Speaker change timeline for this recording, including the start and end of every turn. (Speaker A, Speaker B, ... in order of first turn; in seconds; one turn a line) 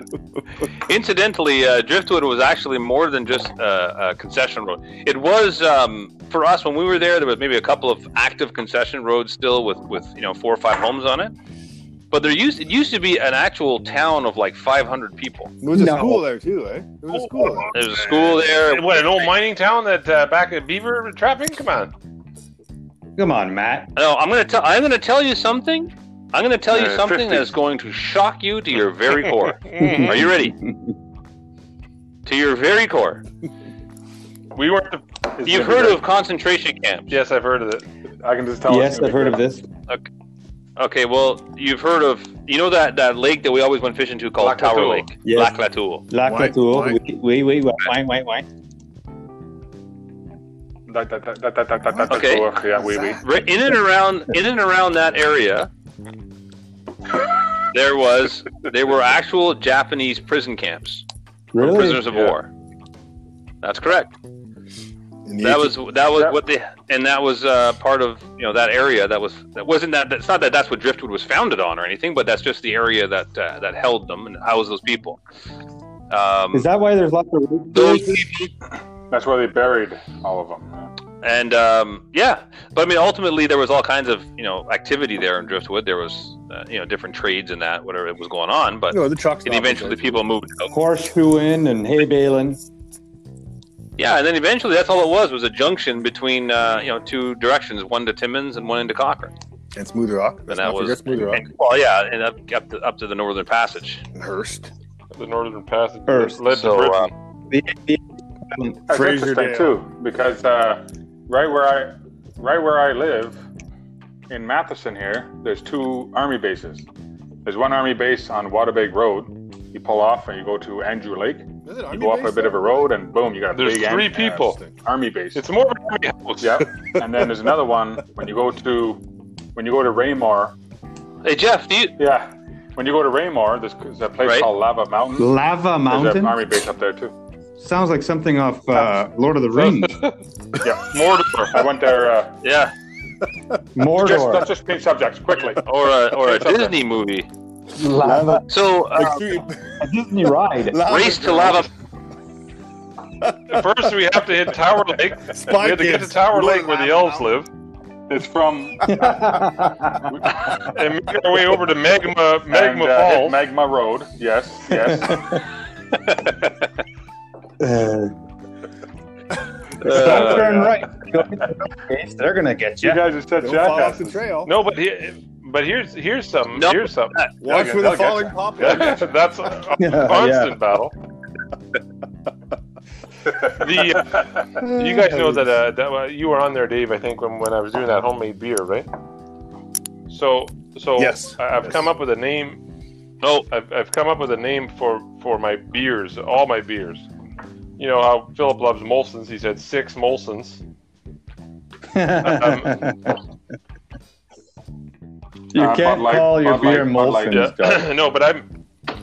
Speaker A: 0.8-11.3
Speaker A: 12.1-15.5
Speaker B: 15.6-17.7
Speaker C: 15.7-16.2
Speaker D: 17.4-21.9
Speaker A: 17.7-19.2
Speaker C: 23.2-23.9
Speaker A: 23.9-30.6
Speaker E: 26.8-27.3
Speaker C: 29.8-30.8
Speaker A: 32.2-33.2
Speaker D: 34.5-35.0
Speaker E: 35.4-36.0
Speaker A: 35.4-37.1
Speaker D: 37.1-37.8
Speaker E: 38.2-39.4
Speaker C: 38.7-39.6
Speaker A: 40.8-46.1
Speaker D: 44.4-45.1
Speaker C: 45.2-48.5
Speaker B: 46.2-47.0
Speaker E: 50.9-53.2
Speaker A: 52.1-52.5
Speaker A: 53.2-55.7
Speaker A: 57.7-61.1
Speaker C: 61.5-62.2
Speaker A: 61.6-62.5
Speaker A: 63.6-64.1
Speaker B: 65.2-65.8
Speaker A: 65.4-75.2
Speaker A: 76.1-76.7
Speaker C: 76.5-78.2
Speaker A: 77.7-78.5
Speaker E: 79.1-80.9
Speaker A: 81.2-90.7
Speaker B: 88.9-90.2
Speaker C: 90.7-92.6
Speaker A: 94.0-99.3
Speaker B: 99.7-101.5
Speaker A: 100.5-104.0
Speaker B: 104.2-104.7
Speaker D: 105.1-107.1
Speaker C: 106.1-106.5
Speaker A: 106.5-107.1
Speaker C: 107.5-108.8
Speaker E: 108.9-113.4
Speaker B: 108.9-109.8
Speaker E: 114.3-116.8
Speaker E: 117.4-125.4
Speaker B: 121.7-122.8
Speaker D: 123.5-124.6
Speaker B: 124.4-124.7
Speaker D: 125.3-126.7
Speaker E: 126.4-129.0
Speaker E: 129.6-130.6
Speaker A: 131.2-132.0
Speaker E: 132.0-135.3
Speaker A: 134.2-134.5
Speaker C: 135.2-136.4
Speaker E: 135.9-137.1
Speaker C: 137.6-140.0
Speaker D: 139.5-140.2
Speaker E: 140.6-142.4
Speaker D: 140.9-141.6
Speaker A: 142.4-142.7
Speaker C: 143.7-144.5
Speaker E: 143.9-146.8
Speaker A: 145.6-147.3
Speaker C: 147.8-148.4
Speaker B: 147.9-149.8
Speaker A: 148.5-149.4
Speaker C: 149.8-150.8
Speaker B: 150.7-151.7
Speaker A: 150.8-151.7
Speaker B: 153.2-153.6
Speaker D: 153.5-157.5
Speaker B: 155.1-157.3
Speaker E: 158.1-159.3
Speaker C: 158.8-160.1
Speaker E: 160.1-160.5
Speaker D: 160.7-163.4
Speaker E: 162.5-165.4
Speaker C: 167.6-168.1
Speaker C: 169.8-173.1
Speaker A: 169.8-170.6
Speaker E: 170.0-170.7
Speaker E: 172.8-174.2
Speaker B: 173.4-174.5
Speaker D: 174.4-180.9
Speaker A: 176.6-177.3
Speaker B: 177.4-179.2
Speaker E: 177.6-178.2
Speaker C: 179.8-180.6
Speaker D: 183.4-188.9
Speaker C: 184.6-184.9
Speaker B: 185.0-185.4
Speaker D: 190.1-192.6
Speaker B: 191.0-191.8
Speaker D: 193.5-197.1
Speaker D: 197.8-200.6
Speaker C: 201.9-203.2
Speaker D: 202.2-202.8
Speaker C: 205.5-207.9
Speaker E: 205.6-207.5
Speaker D: 207.3-208.4